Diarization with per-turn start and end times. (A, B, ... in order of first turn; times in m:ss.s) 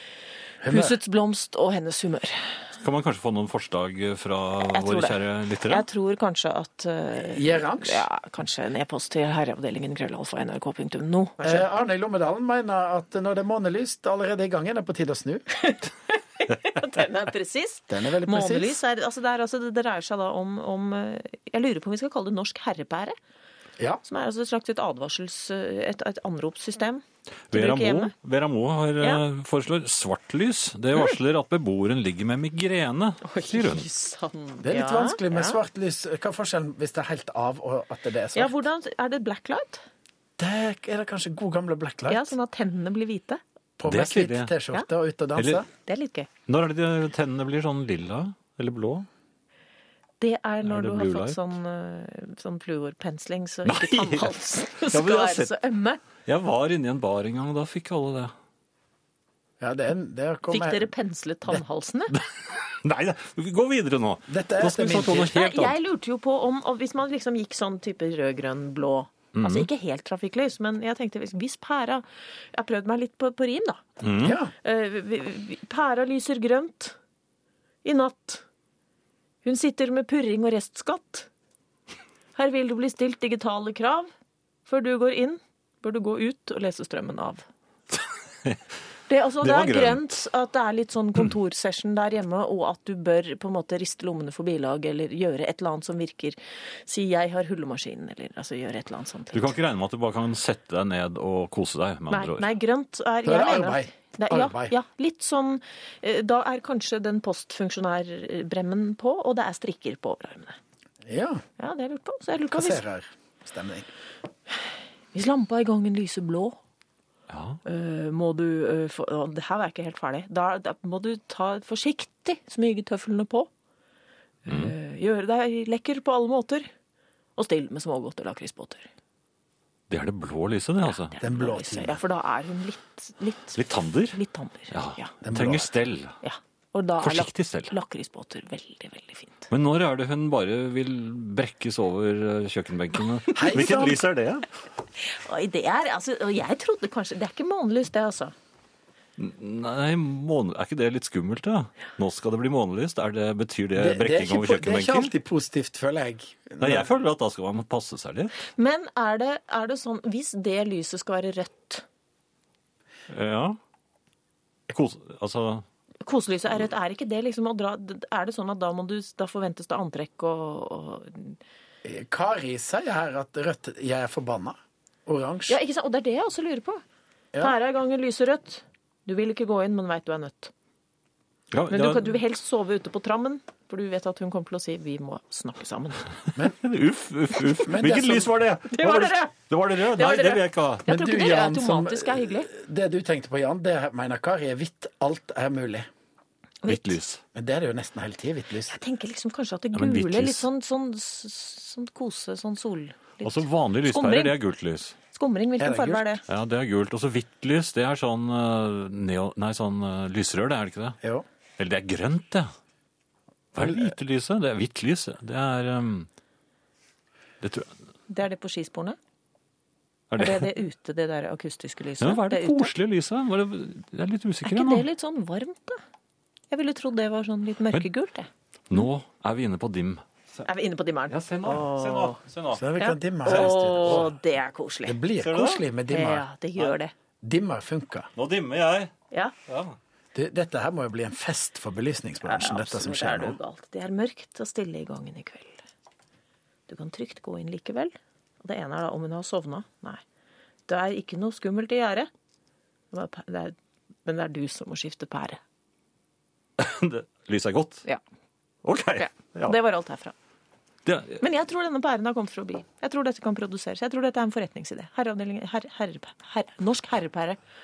0:00.6-0:01.0 A
0:00.6-0:02.6 B
0:02.8-0:05.8 C
0:04.7-0:11.6 B
0:07.2-0:08.1 A
0:11.4-0:15.5 A
0:15.6-0:23.2 B
0:17.9-0:18.8 A
0:24.0-0:28.1 B
0:27.5-0:33.9 C
0:33.2-0:35.6 B
0:34.6-0:38.5 A
0:38.3-0:39.8 B
0:40.4-0:42.3 A
0:42.1-0:43.4 B
0:43.8-0:45.7 A
0:43.9-0:44.5 C
0:45.4-0:45.6 C
0:45.7-0:46.3 B
0:46.5-0:49.1 C
0:50.2-0:56.0 B
0:50.6-0:51.4 C
0:53.6-0:55.5 C
0:56.2-0:58.3 C
0:59.6-1:00.9 A
1:00.5-1:02.1 B
1:02.1-1:05.7 C
1:04.3-1:05.3 A
1:05.1-1:13.8 B
1:09.3-1:09.7 C
1:14.0-1:14.4 C
1:14.2-1:14.5 A
1:14.6-1:17.0 B
1:17.8-1:18.4 B
1:19.4-1:21.3 B
1:22.4-1:24.1 B
1:24.6-1:27.4 B
1:27.9-1:28.6 C
1:29.1-1:39.6 B
1:29.4-1:30.2 C
1:39.3-1:42.5 C
1:42.1-1:50.6 B
1:43.2-1:44.7 A
1:51.0-1:51.4 A
1:51.6-1:52.8 B
1:52.5-1:53.9 A
1:55.1-1:56.6 B
1:57.3-1:57.6 C
1:57.6-2:03.5 B
2:04.4-2:06.7 B
2:04.5-2:04.7 C
2:07.4-2:08.9 B
2:09.9-2:11.2 C
2:10.9-2:15.1 B
2:11.2-2:12.0 A
2:13.5-2:14.2 C
2:14.7-2:16.2 C
2:15.2-2:15.7 A
2:16.2-2:19.5 B
2:17.0-2:17.7 C
2:19.5-2:24.5 C
2:23.3-2:23.7 B
2:23.3-2:24.0 A
2:25.0-2:28.3 B
2:29.2-2:35.1 C
2:33.8-2:36.9 A
2:36.6-2:38.4 C
2:38.4-2:41.8 B
2:43.1-2:43.6 C
2:44.7-2:45.6 C
2:46.0-2:51.4 B
2:51.8-2:55.6 A
2:55.5-2:56.8 B
2:57.4-3:00.5 B
3:01.5-3:02.2 C
3:01.7-3:06.1 B
3:06.4-3:10.9 C
3:07.6-3:08.3 A
3:08.7-3:12.5 B
3:10.9-3:15.9 A
3:16.6-3:17.0 B
3:16.7-3:17.2 C
3:17.3-3:18.8 A
3:18.7-3:24.4 B
3:19.7-3:20.4 C
3:23.2-3:25.0 C
3:25.1-3:26.2 B
3:25.6-3:26.1 A
3:26.3-3:31.0 C
3:31.6-3:32.5 C
3:33.5-3:36.1 C
3:33.6-3:33.9 A
3:37.4-3:37.7 C
3:38.1-3:39.0 B
3:40.1-3:40.5 C
3:40.2-3:42.7 B
3:42.0-3:44.8 C
3:44.4-3:45.8 B
3:46.5-3:48.8 B
3:48.7-3:50.4 C
3:50.4-3:52.2 B
3:51.1-3:52.6 C
3:52.5-3:54.1 A
3:52.8-3:55.0 B
3:53.2-3:54.1 C
3:54.8-3:56.2 A
3:55.2-3:55.6 C
3:55.9-3:56.9 B
3:57.2-3:58.1 A
3:58.1-3:58.9 C
3:59.5-3:59.8 C
4:00.1-4:03.4 A
4:02.2-4:05.6 B
4:06.7-4:10.0 B
4:10.7-4:12.1 B
4:12.9-4:15.4 B
4:16.6-4:17.8 C
4:18.6-4:19.6 C
4:19.0-4:20.1 B
4:20.8-4:21.2 C
4:21.2-4:27.4 B